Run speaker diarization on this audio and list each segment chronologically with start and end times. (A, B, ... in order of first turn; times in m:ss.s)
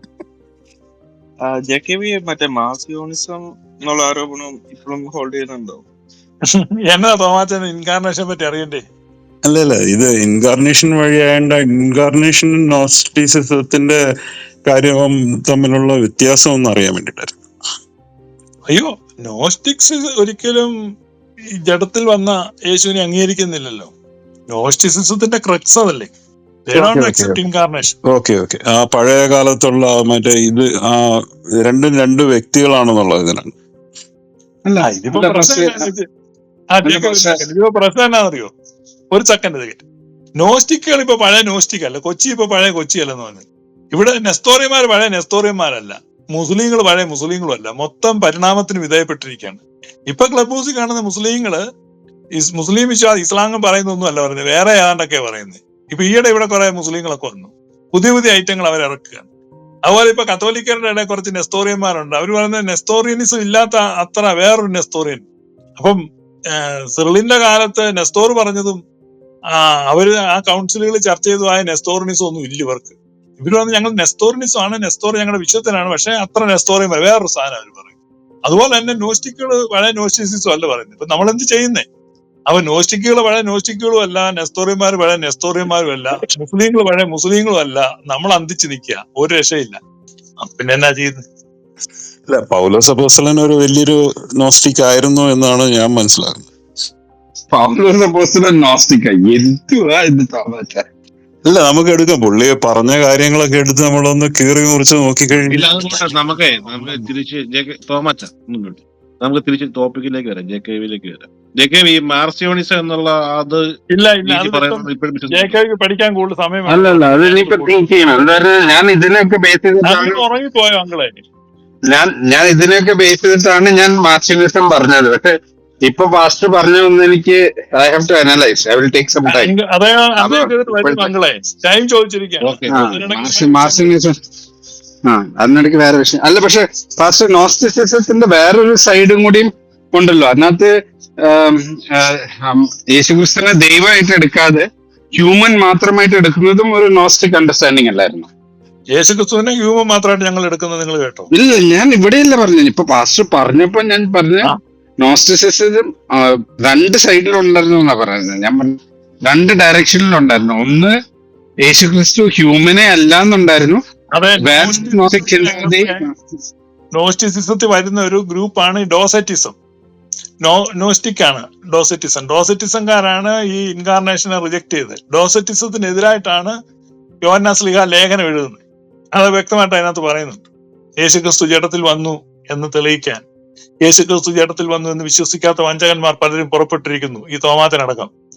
0:01.4-0:05.8 A
0:06.8-0:08.8 B
0:09.4-0:14.0 C
0:14.6-0:17.4 C
0:18.7-0:20.7 B
0:21.7-0:23.9 B
0:24.5-0:26.1 B
0:26.7-0:28.0 B
0:26.7-0:27.4 C
0:28.0-0:31.1 C
0:31.6-0:33.5 C
0:34.6-0:35.9 D
0:34.8-0:36.0 B
0:36.7-0:38.5 B
0:36.8-0:37.4 D
0:39.1-0:39.8 B
0:40.4-0:51.6 B
0:52.4-0:59.3 B
0:59.9-1:05.2 B
1:06.5-1:08.8 B
1:09.5-1:17.9 B
1:18.4-1:21.8 B
1:22.5-1:29.8 B
1:30.4-1:31.2 B
1:32.3-1:36.5 C
1:37.5-1:40.8 D
1:41.4-1:45.8 C
1:45.5-1:53.7 E
1:53.9-1:58.4 B
1:54.2-1:55.5 E
1:56.7-2:00.2 D
1:59.8-2:01.2 B
2:01.9-2:05.3 D
2:05.9-2:09.5 D
2:09.3-2:13.9 B
2:10.2-2:11.1 D
2:12.4-2:12.9 E
2:12.7-2:14.1 D
2:15.1-2:20.7 D
2:21.2-2:24.6 D
2:25.2-2:28.3 D
2:29.0-2:31.3 B
2:31.3-2:35.8 D
2:36.6-2:40.9 D
2:41.6-2:43.8 D
2:44.1-2:46.0 B
2:44.4-2:46.0 D
2:46.9-2:49.5 B
2:50.4-2:56.5 B
2:57.2-2:58.6 B
2:59.1-3:00.4 B
3:01.0-3:03.2 B
3:03.8-3:08.1 B